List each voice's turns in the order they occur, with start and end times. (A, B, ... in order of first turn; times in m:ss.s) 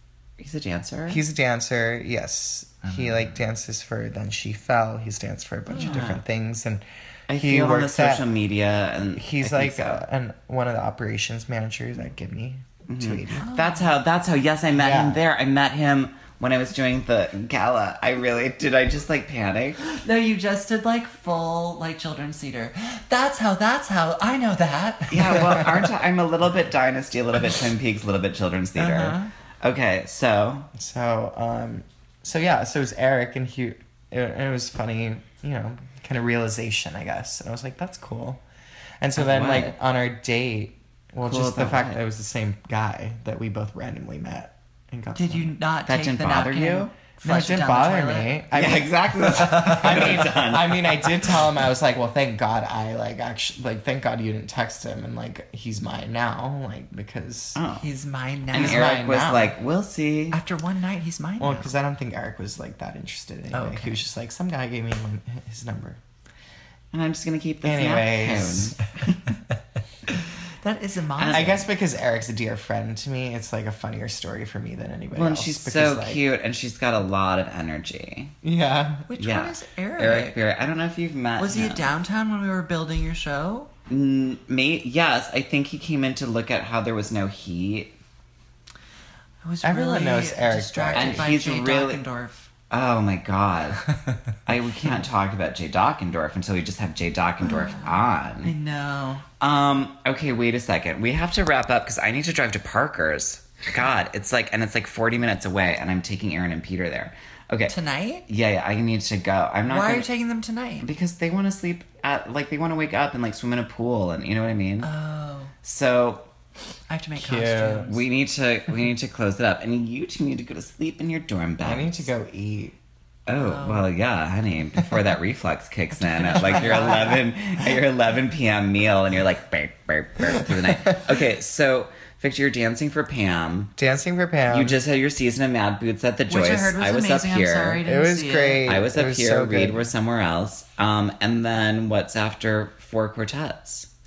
0:00.4-0:01.2 A
0:01.1-0:08.2 B
0:05.7-0:06.0 C
0:05.7-0:06.2 A
0:07.3-0:10.0 A
0:09.1-0:13.4 B
0:12.9-0:19.8 A
0:13.3-0:13.9 C
0:14.7-0:15.2 B
0:19.8-0:25.6 C
0:25.1-0:30.7 A
0:28.8-0:29.3 C
0:30.7-0:38.4 B
0:39.0-0:45.5 B
0:39.2-0:39.7 A
0:41.2-0:42.0 A
0:45.1-0:48.4 C
0:45.9-0:46.9 A
0:47.2-0:57.6 B
0:48.5-0:51.6 A
0:57.5-0:57.8 A
0:57.7-0:59.0 C
0:58.5-1:00.4 A
0:58.6-0:59.6 B
1:00.3-1:01.7 C
1:01.4-1:06.0 B
1:03.5-1:04.0 C
1:06.9-1:09.2 A
1:07.6-1:08.8 B
1:10.6-1:11.7 C
1:11.2-1:11.6 A
1:11.3-1:16.2 B
1:15.1-1:18.3 A
1:18.4-1:19.1 B
1:19.1-1:20.4 C
1:19.2-1:21.9 A
1:21.4-1:23.7 C
1:23.9-1:27.9 A
1:29.4-1:32.5 C
1:29.6-1:31.3 B
1:30.9-1:32.0 A
1:32.7-1:33.9 A
1:34.4-1:38.5 A
1:38.4-1:39.2 C
1:39.4-1:47.7 A
1:47.7-1:48.2 C
1:48.3-1:50.1 A
1:49.6-1:50.9 C
1:50.8-1:54.9 A
1:54.8-1:55.5 C
1:55.6-1:56.2 A
1:56.9-1:58.0 C
1:57.2-1:57.9 B
1:57.8-2:02.1 A
2:01.6-2:02.8 B
2:03.3-2:13.7 A
2:03.4-2:03.9 C
2:06.0-2:07.2 C
2:06.7-2:07.1 B
2:10.3-2:11.1 B
2:13.8-2:14.8 B
2:14.5-2:17.8 A
2:16.3-2:18.7 C
2:17.8-2:19.9 B
2:18.6-2:23.9 A